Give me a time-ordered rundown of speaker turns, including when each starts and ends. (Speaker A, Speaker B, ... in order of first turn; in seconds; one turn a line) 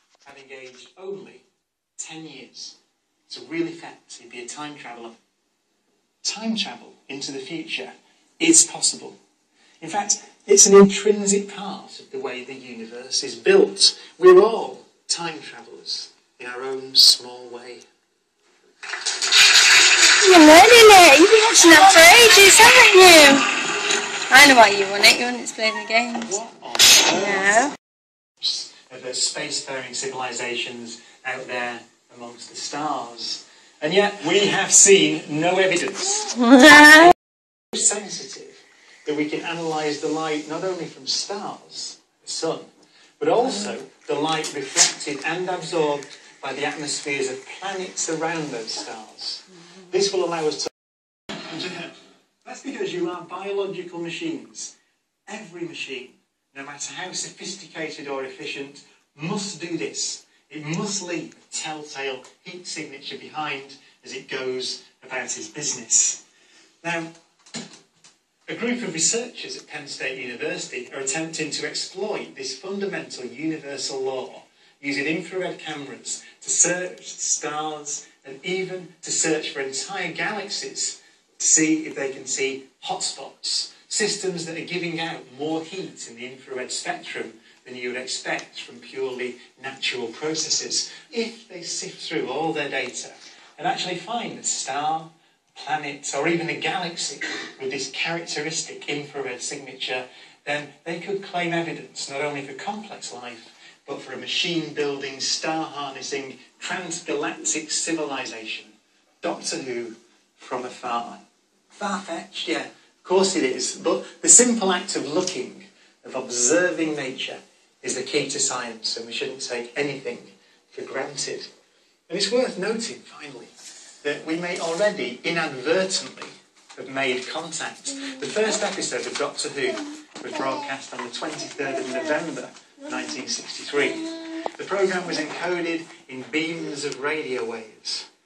Speaker A: 0.2-1.4
Speaker A: 2.0-2.8
Speaker A: 3.3-5.2
Speaker A: 6.2-9.2
Speaker A: 9.8-17.9
Speaker B: 20.0-26.3
Speaker A: 26.2-27.7
Speaker B: 27.1-27.7
Speaker A: 28.4-37.1
Speaker B: 36.4-37.1
Speaker A: 37.7-42.7
Speaker A: 43.2-50.7
Speaker A: 51.3-54.7
Speaker A: 55.3-66.2
Speaker A: 66.8-67.1
Speaker A: 68.5-111.2
Speaker A: 111.7-121.5
Speaker A: 122.1-123.5
Speaker A: 124.0-138.1